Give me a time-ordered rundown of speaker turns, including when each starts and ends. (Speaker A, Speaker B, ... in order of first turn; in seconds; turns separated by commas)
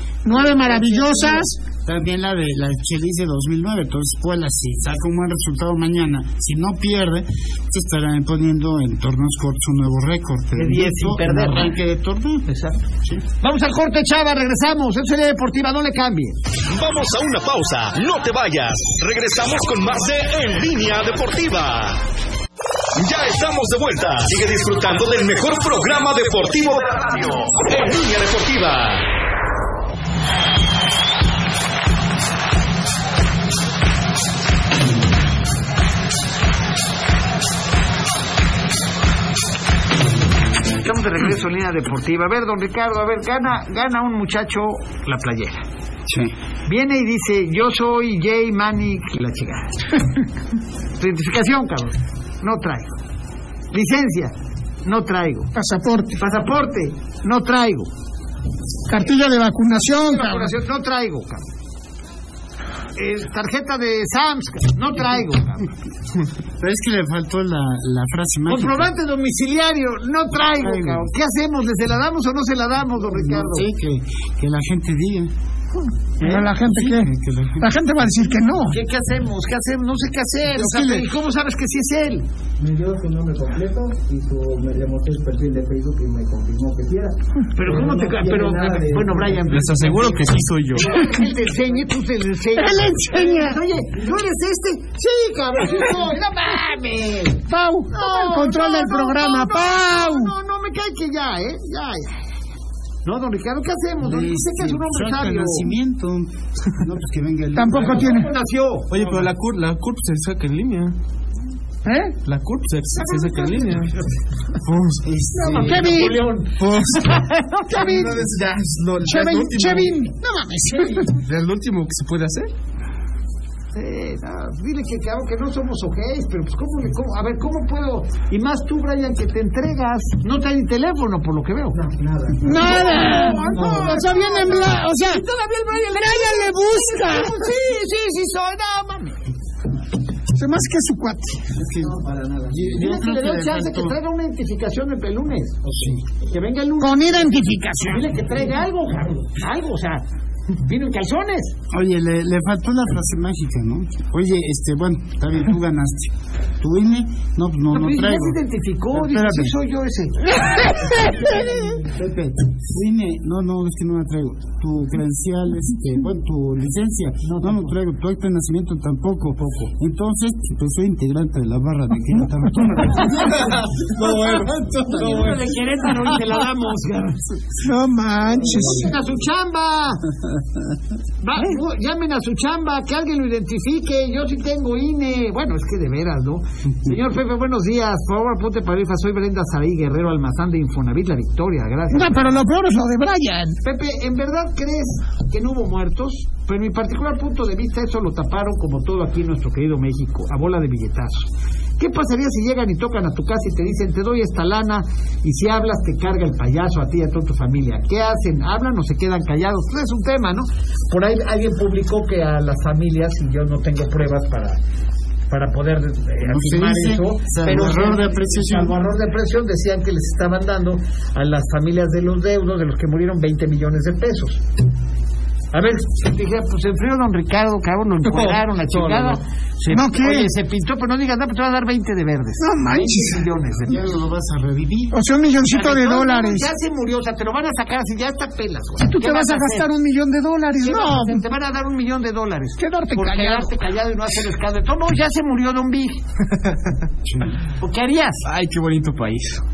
Speaker A: 0.2-1.6, Speaker B: 0.3-12.5, Speaker C: 10.6-11.7, Speaker C: 12.5-12.8, Speaker C: 13.4-16.4, Speaker D: 16.7-22.0, Speaker D: 23.0-29.1, Speaker C: 40.8-45.6, Speaker B: 46.1-46.3, Speaker C: 46.7-49.8, Speaker C: 51.0-53.0, Speaker C: 53.7-54.3, Speaker C: 54.9-55.5, Speaker A: 55.5-56.2, Speaker C: 56.2-57.9, Speaker A: 58.9-60.5, Speaker C: 59.9-61.4, Speaker C: 63.0-65.7, Speaker B: 66.6-68.9, Speaker C: 68.5-73.7, Speaker B: 70.6-71.1, Speaker B: 73.0-75.3, Speaker A: 76.2-78.8, Speaker B: 76.2-77.7, Speaker C: 78.7-82.2, Speaker B: 80.5-81.1, Speaker E: 82.6-89.6, Speaker C: 87.5-102.2, Speaker F: 89.5-90.9, Speaker A: 92.6-93.6, Speaker A: 97.5-100.3, Speaker C: 103.0-105.7, Speaker B: 104.0-108.2, Speaker A: 107.5-108.3, Speaker C: 107.8-109.2, Speaker F: 108.9-111.0, Speaker A: 111.8-112.2, Speaker F: 112.2-113.9, Speaker C: 113.1-114.0, Speaker F: 114.7-115.0, Speaker B: 115.0-116.0, Speaker A: 115.4-116.3, Speaker C: 115.5-118.1, Speaker F: 116.6-120.0, Speaker A: 117.7-118.2, Speaker A: 119.0-121.1, Speaker C: 120.7-121.1, Speaker F: 121.2-122.5, Speaker C: 123.8-131.8, Speaker E: 131.7-134.1, Speaker A: 132.4-135.2, Speaker C: 132.5-139.2, Speaker A: 135.8-137.5, Speaker A: 140.3-141.4, Speaker B: 141.6-142.0, Speaker E: 141.7-142.8, Speaker B: 142.5-144.0, Speaker C: 142.7-145.6, Speaker B: 145.7-146.0, Speaker C: 146.2-151.6, Speaker A: 146.8-148.1, Speaker B: 151.7-158.4, Speaker C: 157.7-160.4, Speaker B: 158.9-159.6, Speaker B: 160.9-175.6, Speaker C: 167.2-167.7, Speaker F: 173.9-175.1, Speaker C: 174.9-177.2, Speaker A: 177.6-178.9, Speaker C: 178.5-180.0, Speaker C: 181.2-192.4, Speaker A: 191.9-193.6, Speaker C: 193.6-214.6, Speaker C: 215.3-224.4, Speaker B: 216.2-218.8, Speaker C: 225.5-233.9, Speaker F: 228.0-229.1, Speaker A: 229.7-230.3, Speaker A: 232.4-233.2, Speaker B: 233.7-235.0, Speaker A: 234.9-236.5, Speaker C: 235.5-239.7, Speaker A: 238.8-241.2, Speaker C: 240.6-246.0, Speaker A: 242.6-243.5, Speaker B: 247.1-247.3, Speaker C: 247.6-248.2, Speaker F: 248.2-249.4